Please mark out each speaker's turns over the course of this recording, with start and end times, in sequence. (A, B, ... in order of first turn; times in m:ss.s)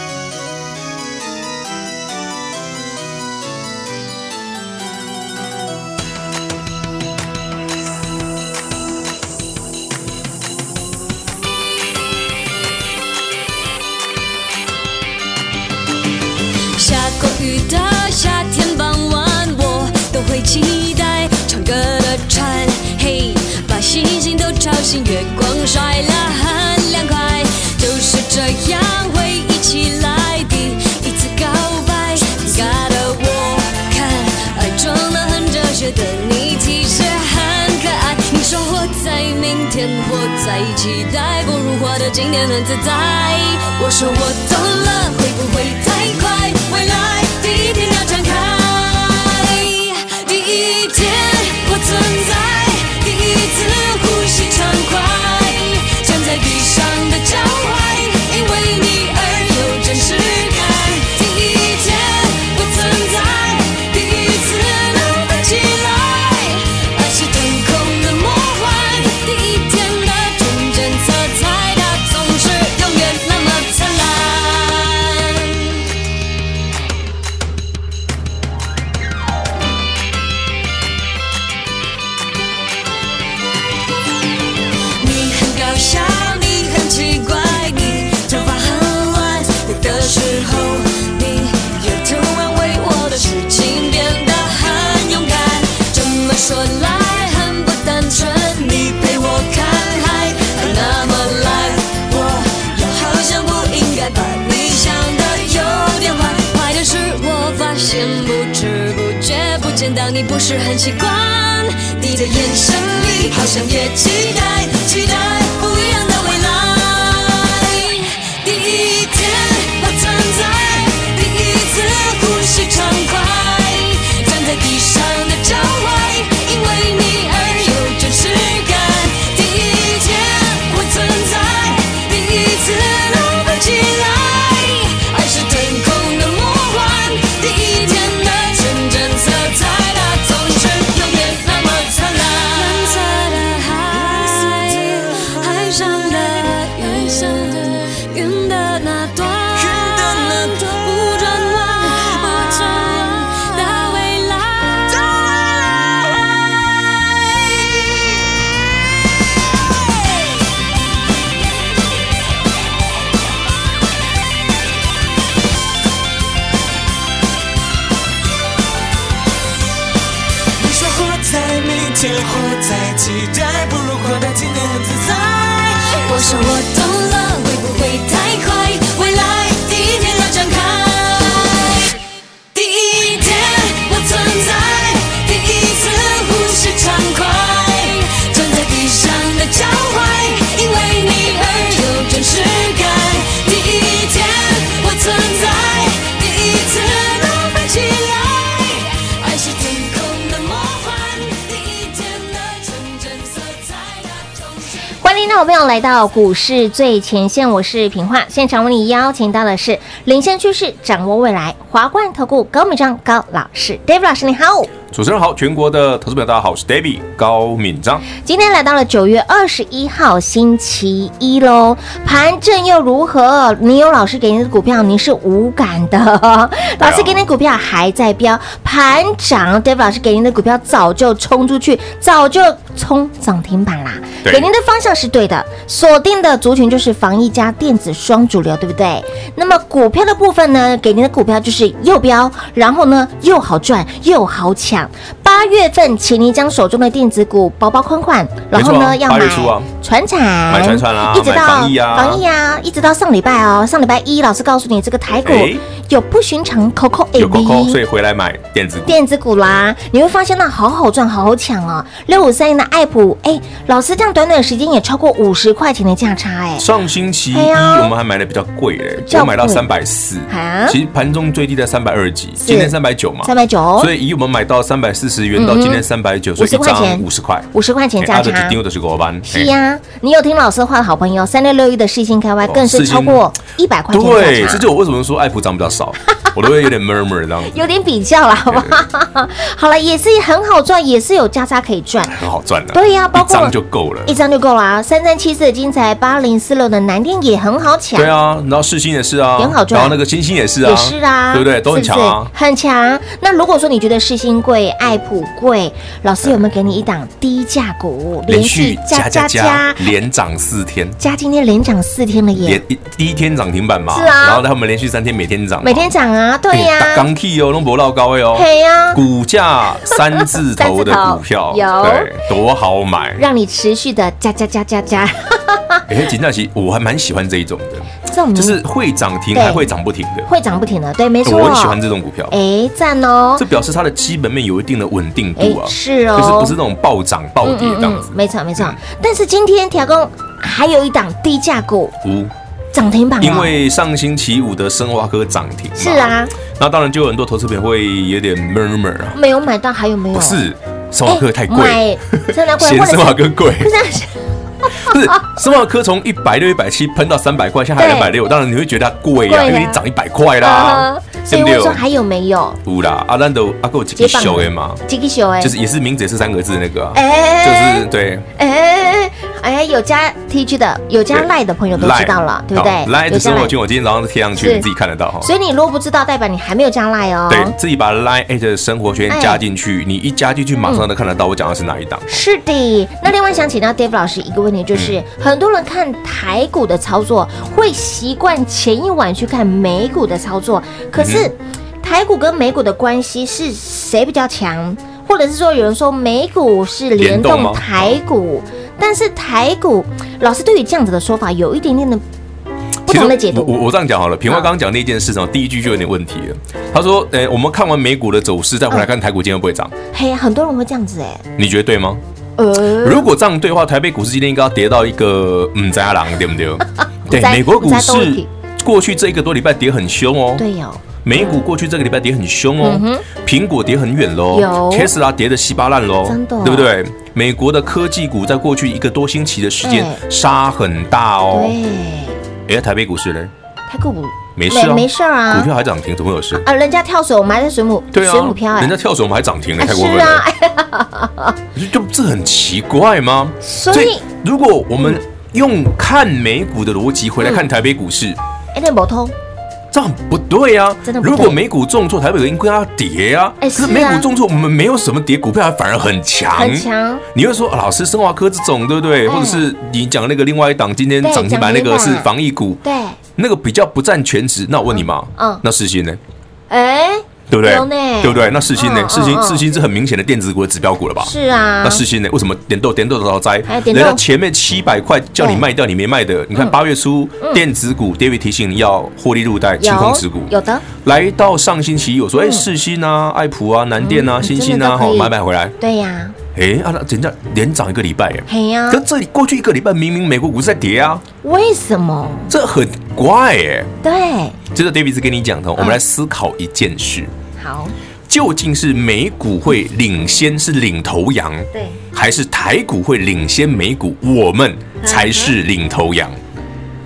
0:16.8-1:15.8 A
1:25.0-2:36.0 A
2:24.1-2:25.3 B
2:29.6-2:30.7 B
2:50.6-2:56.0 B
2:55.7-3:02.0 A
3:02.5-3:24.7 A
3:25.0-3:34.7 C
3:34.9-3:38.1 D
3:38.2-4:17.8 C
3:46.8-3:47.2 D
4:08.5-4:09.7 D
4:10.5-4:12.2 D
4:15.2-4:15.6 D
4:17.2-4:19.0 D
4:18.9-4:26.7 C
4:26.6-4:37.5 D
4:27.3-4:27.9 C
4:29.0-4:29.7 C
4:30.3-4:30.8 C
4:32.4-4:33.9 C
4:35.4-4:35.8 C
4:36.4-4:38.6 C
4:38.0-4:39.5 D
4:39.2-4:44.6 C
4:42.4-4:43.2 D
4:43.9-4:47.5 D
4:47.5-4:52.2 C
4:48.5-4:48.8 D
4:52.1-4:54.2 D
4:52.7-4:58.1 C
4:58.0-5:02.3 D
4:59.4-5:00.0 C
5:00.6-5:09.9 C
5:08.3-5:11.0 D
5:11.0-5:12.6 C
5:12.4-5:15.9 D
5:13.9-5:14.4 C
5:15.6-5:17.1 C
5:16.5-5:23.2 D
5:18.4-5:19.0 C
5:19.9-5:22.1 C
5:23.2-5:25.8 C
5:25.9-5:30.3 D
5:28.0-5:28.6 C
5:29.3-5:29.7 C
5:30.3-5:31.8 C
5:31.2-5:32.4 D
5:32.3-5:33.4 C
5:33.4-5:38.8 D
5:35.4-5:36.6 C
5:37.4-5:42.0 C
5:42.0-5:42.3 D
5:42.7-5:43.5 C
5:43.2-5:49.2 D
5:45.8-5:46.3 C
5:49.1-5:50.4 C
5:50.1-5:53.7 D
5:51.1-5:55.2 C
5:54.8-6:01.8 D
5:57.8-5:58.1 C
5:59.3-5:59.8 C
6:00.4-6:02.6 C
6:02.6-6:04.8 D
6:04.0-6:05.5 C
6:05.4-6:08.3 D
6:06.9-6:13.5 C
6:11.1-6:15.3 D
6:14.4-6:14.7 C
6:15.2-6:17.6 C
6:17.3-6:22.2 D
6:19.1-6:19.4 C
6:22.1-6:42.0 C
6:24.7-6:25.0 D
6:31.0-6:31.3 D
6:37.0-6:37.6 D
6:42.9-6:43.6 C
6:42.9-6:49.7 D
6:49.9-6:51.2 C
6:51.4-6:52.0 D
6:52.4-6:53.1 C
6:52.8-7:00.4 D
6:57.1-6:58.3 C
7:00.4-7:01.4 C
7:01.0-7:11.6 D
7:02.6-7:03.0 C
7:04.3-7:04.9 C
7:06.0-7:06.7 C
7:09.6-7:10.0 C
7:11.3-7:12.2 C
7:12.5-7:13.3 D
7:13.7-7:15.5 C
7:14.4-7:16.4 D
7:16.3-7:18.8 C
7:17.9-7:20.2 D
7:19.6-7:21.4 C
7:21.6-7:28.2 D
7:23.4-7:24.1 C
7:27.2-7:27.5 C
7:28.5-7:29.1 C
7:29.7-7:42.6 D
7:30.8-7:31.4 C
7:33.4-7:34.1 C
7:36.4-7:37.0 C
7:39.1-7:39.5 C
7:41.0-7:42.1 C
7:42.6-7:43.0 C
7:43.2-7:46.0 D
7:44.7-7:45.4 C
7:46.5-7:49.4 C
7:47.3-7:51.1 D
7:51.0-7:51.8 C
7:51.6-8:05.6 D
7:53.5-7:54.0 C
7:55.2-7:55.5 C
7:59.6-8:00.6 C
8:02.2-8:02.5 C
8:03.8-8:06.2 C
8:06.3-8:11.0 D
8:08.3-8:08.8 C
8:11.2-8:12.3 C
8:12.3-8:13.7 D
8:13.8-8:14.4 C
8:14.5-8:17.1 D
8:17.4-8:17.7 C
8:18.1-8:26.2 D
8:21.5-8:21.8 C
8:24.8-8:25.3 C